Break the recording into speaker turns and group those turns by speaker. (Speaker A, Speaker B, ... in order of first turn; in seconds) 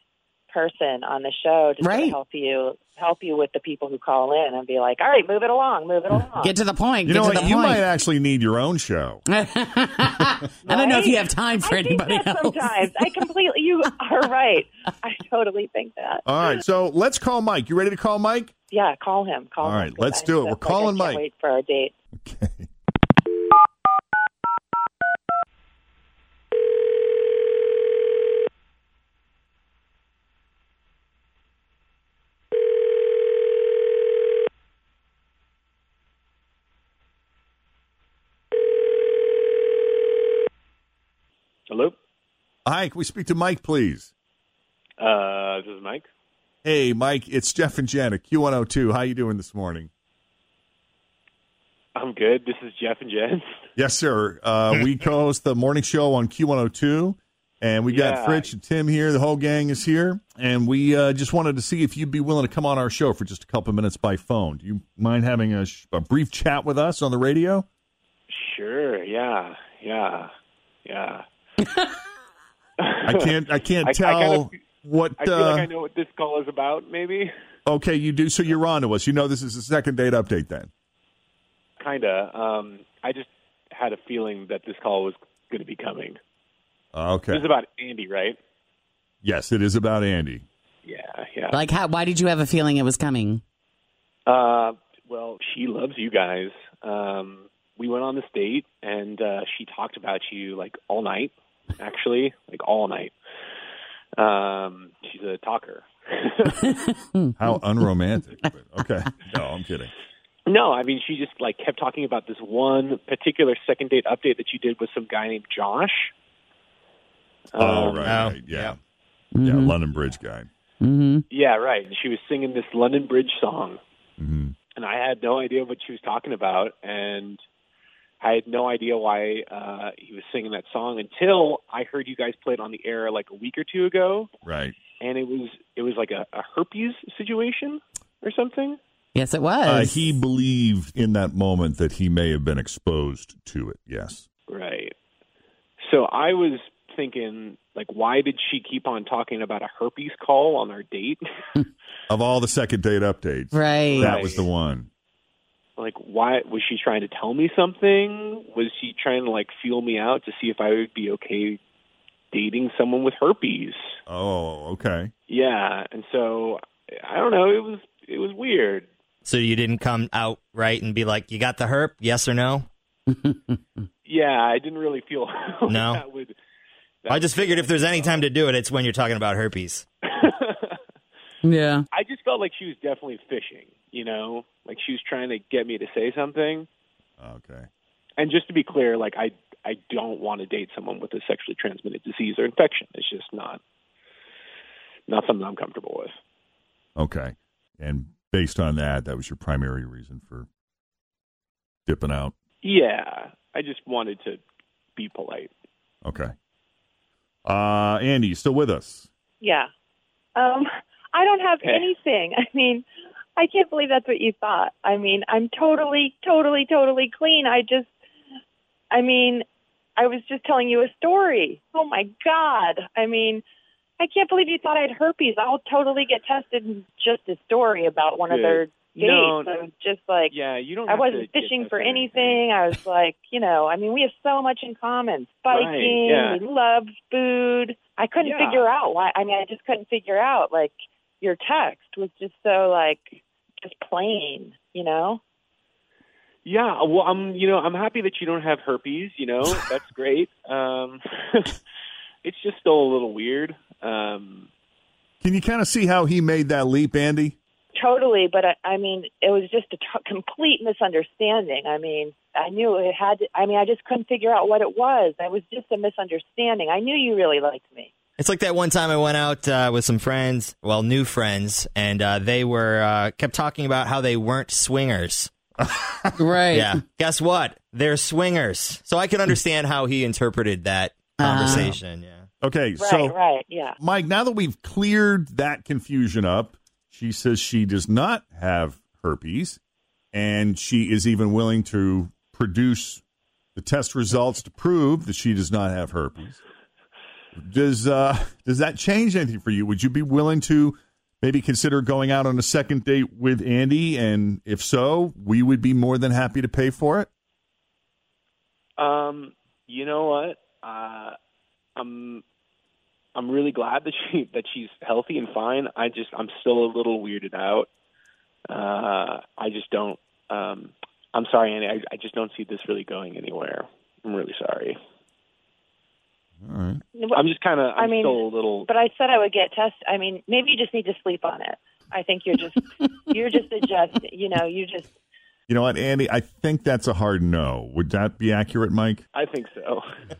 Speaker A: 0.5-6.5, 10.6-16.2, 18.7-21.9, 209.4-209.7, 210.4-217.9, 218.9-219.4, 220.0-223.4, 224.0-245.2, 257.8-267.9, 282.8-283.8, 326.9-327.2, 327.8-334.9
Speaker B: 1.8-2.2, 6.4-7.8, 9.3-13.1, 91.5-93.4, 119.3-119.8, 120.8-121.2, 139.1-140.1, 153.5-154.1, 173.1-173.5, 181.5-181.8, 276.2-276.8, 281.2-281.8
Speaker C: 7.0-9.2, 16.2-18.5, 19.6-21.2, 22.2-22.7, 42.6-44.1, 46.6-49.9, 53.8-67.7, 73.0-75.7, 77.7-80.7, 86.9-87.5, 89.2-90.4, 107.4-109.9, 117.6-118.8, 119.4-120.5, 124.2-124.5, 134.4-134.8, 139.6-144.2, 152.1-154.9, 164.1-165.1, 187.2-187.7, 197.0-200.5, 201.9-202.3, 206.0-206.3, 207.4-209.1, 255.2-257.4, 275.6-276.2, 282.4-283.1, 283.8-289.6, 290.1-293.0, 293.6-296.4, 297.4-307.1, 326.4-326.8, 335.5-339.0
Speaker D: 41.7-42.0, 45.0-46.0, 52.0-53.4, 57.9-58.5, 68.3-70.3, 70.8-71.2, 72.8-74.5, 75.2-77.3, 81.8-86.2, 87.3-88.4, 90.8-91.7, 94.2-103.1, 104.1-106.9, 110.5-116.1, 117.5-118.3, 121.3-123.8, 124.8-127.4, 128.2-134.3, 135.0-138.8, 144.5-144.9, 145.8-151.6, 153.8-154.5, 155.8-161.6, 162.3-163.9, 165.3-168.9, 174.0-176.3, 177.0-178.3, 180.1-180.8, 181.9-186.7, 188.2-193.6, 195.1-196.1, 202.6-204.4, 205.0-205.5, 211.6-211.9, 228.3-229.6, 230.3-232.5, 235.5-236.4, 238.2-238.7, 246.4-251.6, 252.2-254.5, 308.8-311.1, 311.8-312.2, 313.1-317.7, 318.5-324.8, 327.1-328.7, 339.1-339.9
Speaker E: 118.1-118.8, 169.2-172.7, 175.7-176.0, 177.1-179.8, 268.2-275.3, 276.5-282.3